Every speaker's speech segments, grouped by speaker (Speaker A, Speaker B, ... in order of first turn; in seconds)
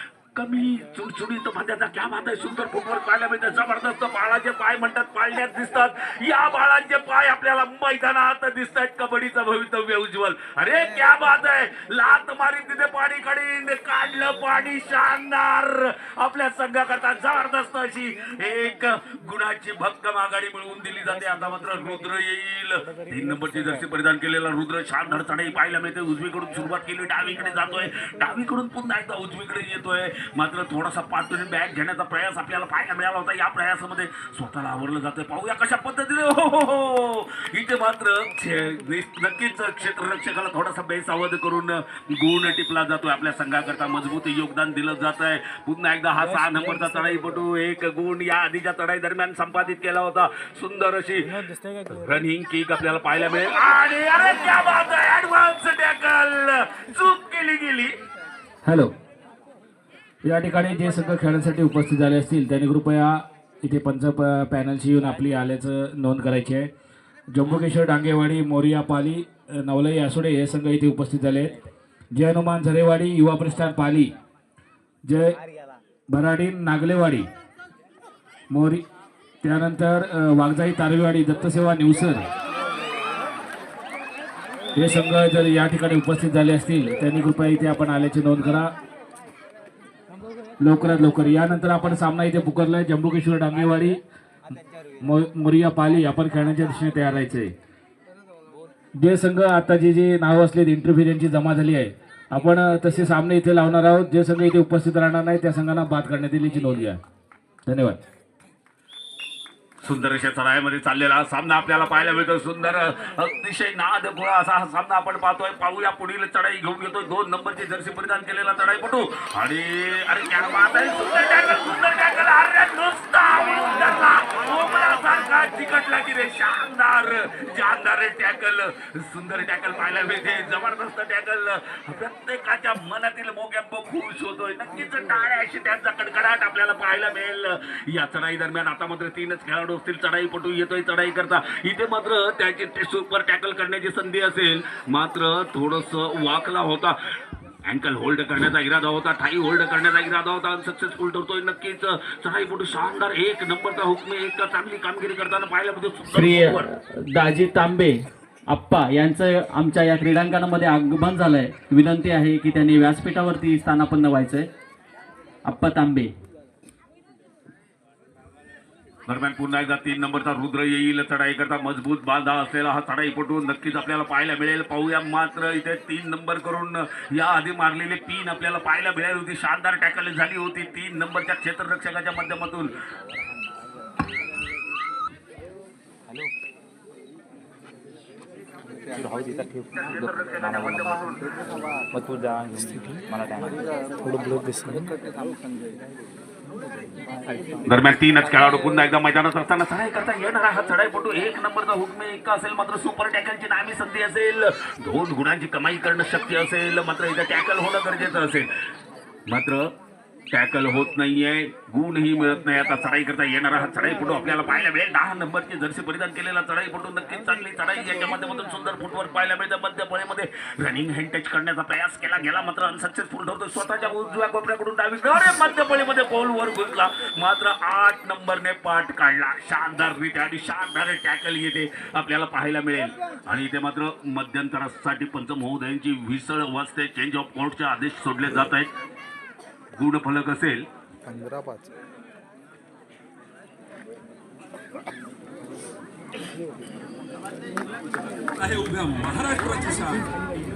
Speaker A: 0.3-51.3, 51.8-58.0, 109.8-147.0, 147.7-156.7, 169.1-182.7, 189.8-191.3, 197.7-208.5, 209.3-209.7, 210.3-238.7, 239.8-240.7
Speaker B: 58.6-58.9, 60.2-66.7, 67.3-71.6, 72.1-74.1, 75.1-75.4, 76.1-77.3, 78.5-78.8, 79.4-82.3, 84.8-88.7, 90.6-94.0, 95.0-97.5, 99.0-107.0, 107.7-108.0, 248.4-250.1
Speaker C: 156.1-164.5, 165.5-166.1
Speaker D: 188.9-189.7, 190.4-191.1, 191.9-195.0, 241.1-241.7